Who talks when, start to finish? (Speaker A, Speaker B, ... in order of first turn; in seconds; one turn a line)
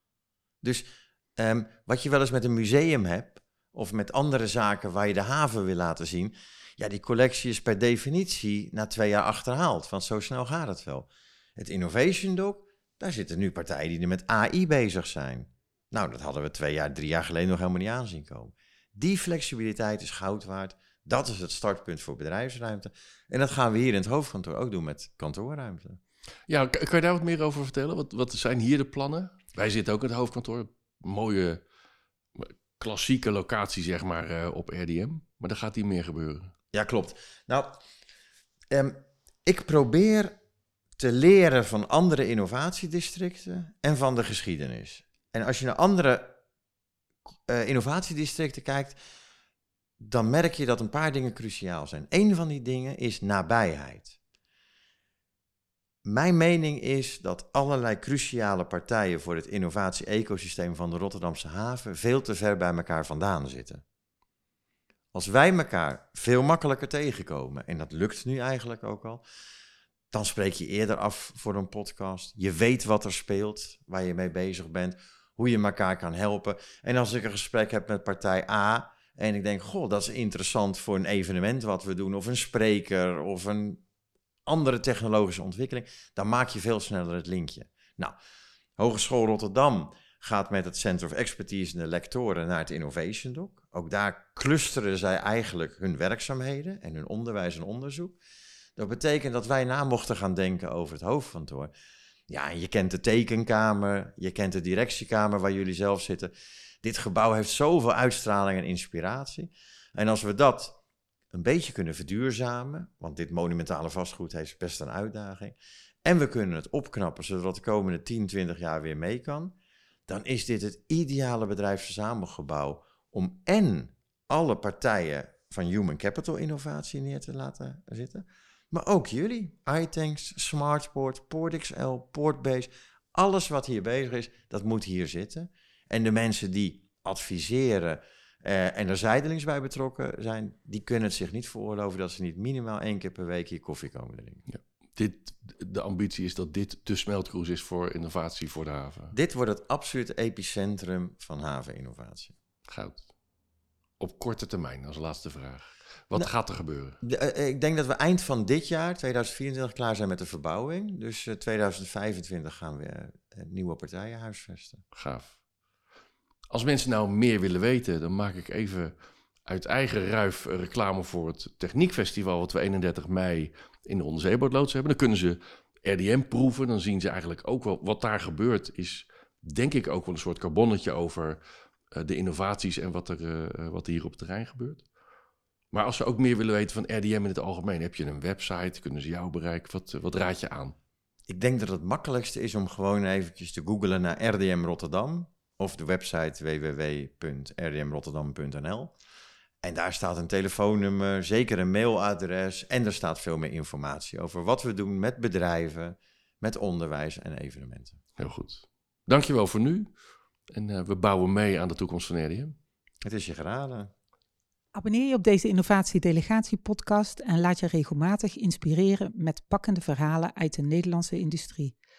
Speaker A: 0.6-26.0
Speaker B: 26.5-31.6
Speaker B: 32.4-36.5
Speaker A: 36.7-37.8
Speaker A: 38.7-40.4
Speaker A: 41.0-46.4
Speaker A: 47.5-49.0
Speaker A: 50.0-54.2
Speaker A: 56.0-63.8
Speaker A: 65.1-69.2
Speaker A: 70.1-83.8
Speaker A: 84.5-88.2
Speaker A: 88.8-98.2
Speaker A: 98.8-101.7
Speaker A: 102.3-110.8
Speaker A: 111.3-119.5
Speaker A: 120.1-144.4
Speaker B: 144.5-149.1
Speaker A: 149.1-152.3
Speaker B: 152.7-153.1
Speaker B: 154.0-157.0
Speaker A: 157.0-164.8
Speaker B: 164.9-165.4
Speaker B: 166.5-168.9
Speaker B: 169.5-181.4
Speaker B: 181.9-184.8
Speaker B: 185.7-190.8
Speaker A: 191.3-198.9
Speaker A: 199.6-208.0
Speaker B: 208.2-209.9
Speaker B: 210.5-212.6
Speaker A: 213.0-213.9
Speaker C: 214.7-221.8